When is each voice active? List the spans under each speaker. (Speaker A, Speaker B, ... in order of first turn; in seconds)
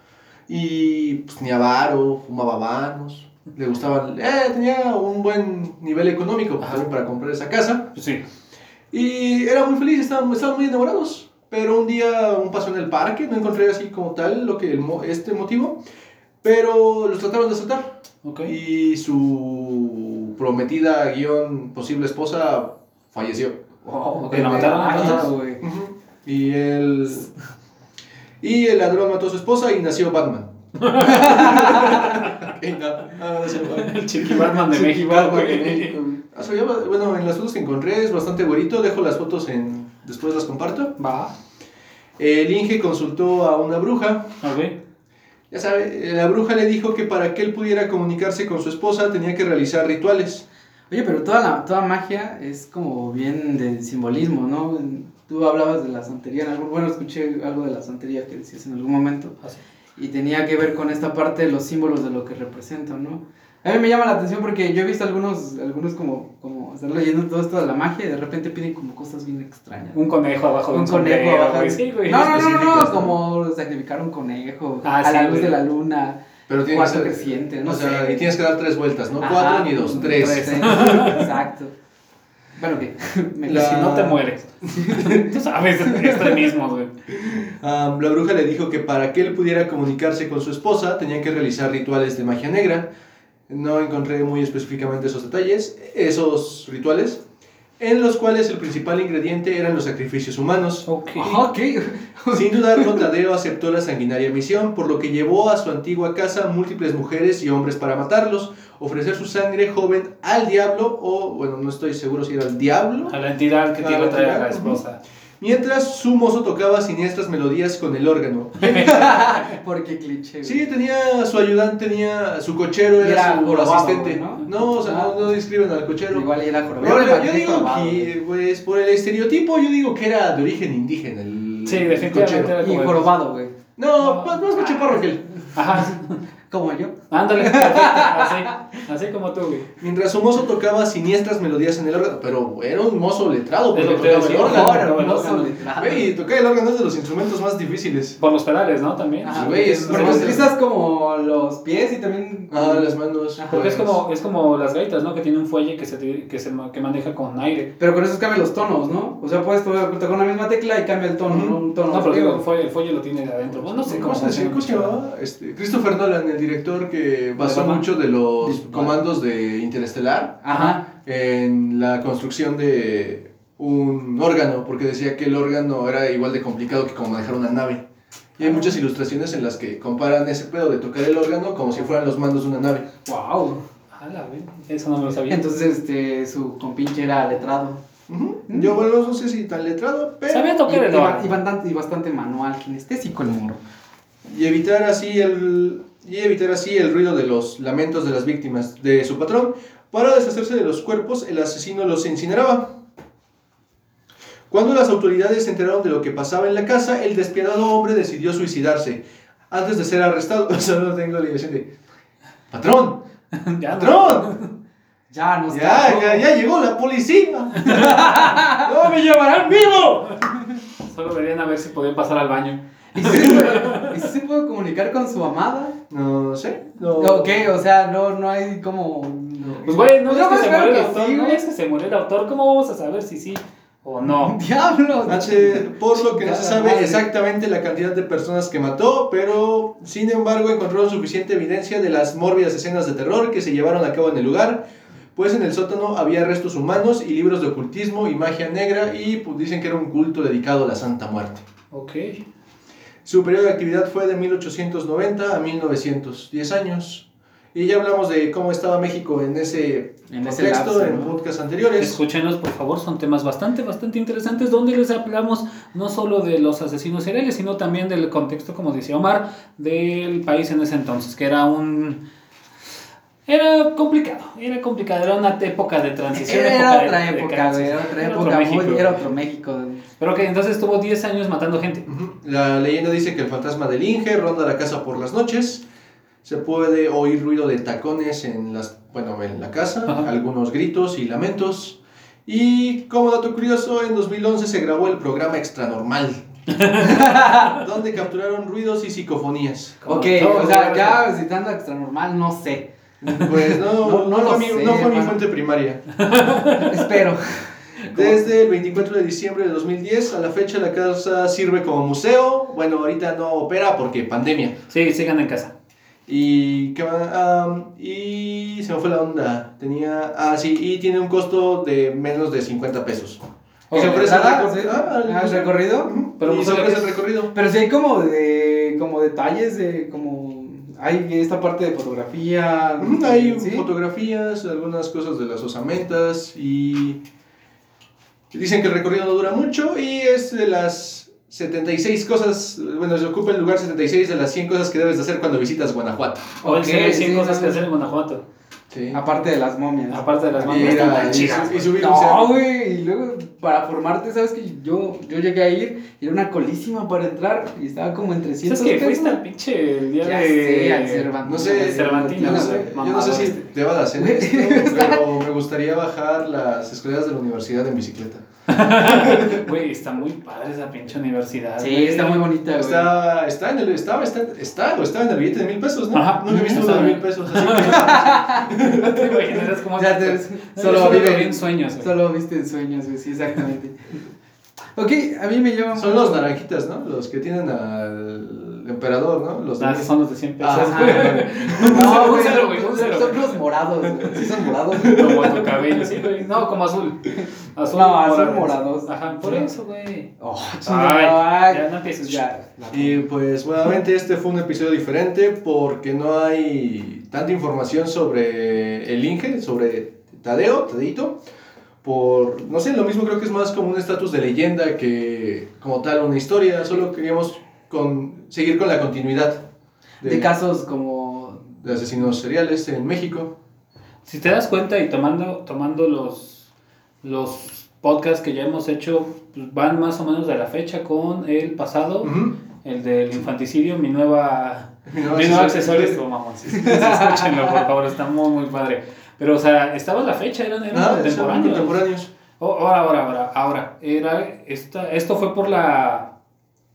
Speaker A: 0.5-7.9, 8.9-15.8, 16.4-23.6, 24.3-27.3, 28.4-34.0, 36.3-40.9, 42.2-44.3, 45.5-50.4, 72.2-73.2, 76.5-81.2, 83.5-84.2, 84.8-85.2, 87.1-92.9, 93.5-97.2, 97.8-101.4, 102.3-113.2, 113.8-114.8, 115.4-119.3, 120.4-132.6, 133.8-135.2, 139.8-145.0, 145.8-148.2, 149.3-150.5, 152.5-154.0, 161.3-161.6, 163.8-177.8, 178.4-182.9, 188.1-190.6, 194.2-202.7, 204.5-211.7, 212.5-213.0, 213.7-214.3, 215.5-220.2, 225.9-227.5, 229.4-229.7, 235.1-251.4, 253.0-262.0, 281.9-285.6, 286.2-296.2, 296.8-299.9, 303.0-305.9, 307.9-314.6, 316.1-327.3, 332.8-337.0, 338.3-346.4, 348.7-349.0, 350.4-352.3, 361.2-369.4, 372.6-379.5, 380.7-381.2, 385.7-392.3, 394.7-395.4, 402.7-411.2, 411.8-419.4, 420.0-420.3, 421.6-423.3, 432.0-432.4, 434.9-436.0, 440.7-442.1
Speaker B: 7.9-8.2, 18.2-18.5, 24.2-25.3, 30.8-32.3, 33.6-36.0, 41.0-41.3, 44.4-44.7, 69.9-72.5, 74.8-75.6, 80.5-81.2, 83.5-86.9, 100.8-101.4, 113.1-115.0, 118.6-119.0, 131.6-133.1, 135.5-136.2, 137.1-139.7, 143.7-145.6, 148.2-150.5, 153.5-157.7, 161.8-165.0, 183.9-185.4, 190.3-191.4, 213.3-214.5, 217.7-217.9, 220.7-224.0, 229.7-234.4, 251.7-252.2, 261.8-272.0, 273.2-279.1, 280.0-281.9, 296.5-297.0, 299.8-301.1, 306.0-306.9, 314.7-315.5, 323.7-324.1, 326.2-327.0, 346.4-348.2, 349.9-351.9, 358.4-363.4, 368.5-372.3, 375.9-381.9, 389.6-393.4, 394.8-400.1, 400.6-402.3, 424.1-426.5, 427.0-441.9, 442.4-446.1
Speaker C: 23.9-25.6, 31.1-32.1, 34.3-36.2, 50.9-59.4, 60.0-70.0, 70.7-78.2, 79.2-81.7, 82.6-84.2, 84.8-85.2, 85.9-86.3, 101.2-103.0, 118.7-120.7, 123.0-125.2, 126.1-128.1, 132.5-133.5, 136.5-138.8, 144.4-146.1, 149.2-153.6, 157.8-162.4, 167.4-167.8, 168.4-168.9, 170.4-170.8, 178.4-178.7, 183.1-183.6, 185.3-187.8, 188.5-188.8, 190.7-193.6, 215.1-216.2, 217.6-218.7, 222.9-225.8, 226.9-231.4, 234.0-237.1, 260.1-261.1, 276.1-279.8, 296.8-297.5, 299.8-305.2, 306.6-308.1, 323.7-325.9, 327.3-333.6, 346.4-347.6, 348.9-359.2, 360.0-363.4, 364.0-365.1, 371.6-372.9, 377.6-378.6, 379.7-383.9, 384.7-386.2, 390.5-395.6, 397.2-399.4, 400.2-403.0, 420.0-421.5, 436.5-437.6